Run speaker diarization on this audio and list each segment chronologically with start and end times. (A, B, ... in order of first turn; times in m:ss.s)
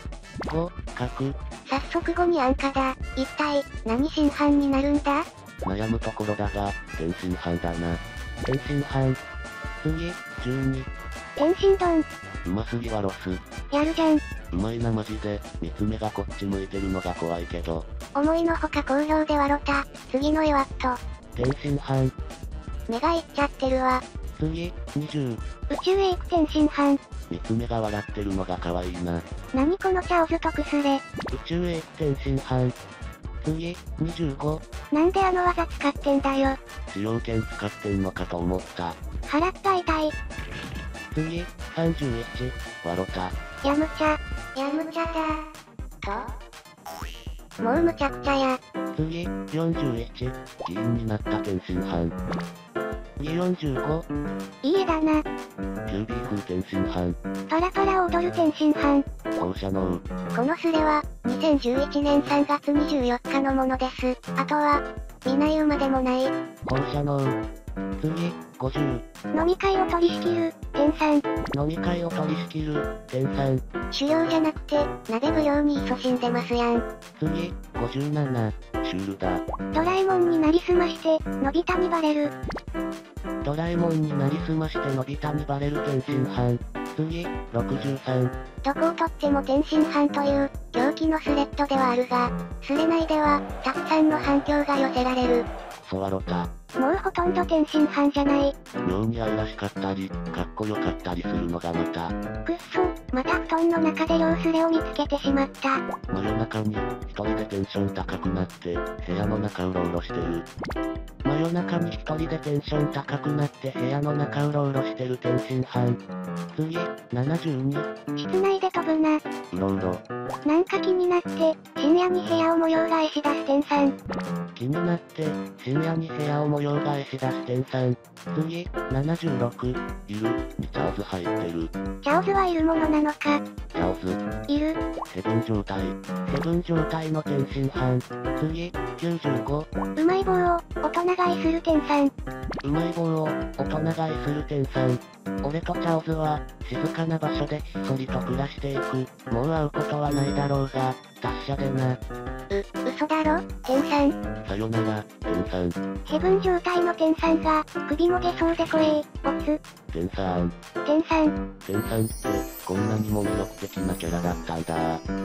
0:00.5-0:01.4 A
0:01.7-0:05.2 B
0:05.6-0:09.2 A
0:09.8-0:10.9 A
0:11.4-0:12.1 B
0:12.4-0:13.4 A
0:13.7-0:14.2 B
0:14.5-0:17.9 A
0:18.2-0:21.0 B
0:21.4-0:22.1 A
0:22.9-0:24.0 B
0:24.4-0:25.4 A
0:25.7-0:27.0 B
0:27.3-0:29.2 A
0:29.5-0:31.0 B
0:31.3-0:32.8 A
0:33.4-0:34.6 A
0:34.9-0:36.6 B
0:36.9-0:39.0 A
0:39.3-0:40.1 B
0:41.1-0:43.4 A
0:43.6-0:45.4 B
0:46.0-0:46.3 B
0:47.6-0:48.6 B
0:49.0-0:52.2 A
0:53.2-0:54.1 A
0:54.6-0:55.2 B
0:55.9-0:57.2 A
0:57.5-0:59.1 B
0:59.4-1:00.0 A
1:00.4-1:06.3 B
1:06.6-1:07.4 A
1:08.0-1:09.0 A
1:09.3-1:11.2 B
1:11.5-1:13.6 A
1:13.9-1:16.8 B
1:17.2-1:19.4 A
1:19.7-1:22.3 B
1:23.4-1:28.3 A
1:28.6-1:35.5 B
1:35.8-1:36.5 A
1:36.8-1:38.6 B
1:38.8-1:42.1 A
1:42.4-1:45.8 B
1:46.1-1:50.5 A
1:51.2-1:56.0 A
1:56.6-1:57.9 A
1:58.2-1:59.2 B
1:59.5-2:00.0 A
2:00.5-2:04.0 B
2:04.6-2:11.7 A
2:12.0-2:13.4 B
2:13.8-2:14.2 A
2:14.5-2:14.8 B
2:15.1-2:19.7 A
2:20.0-2:22.1 B
2:22.6-2:32.0 A
2:32.5-2:34.2 B
2:34.4-2:35.8 A
2:36.1-2:39.6 B
2:39.9-2:40.5 A
2:40.8-2:41.4 B
2:41.6-2:45.0 A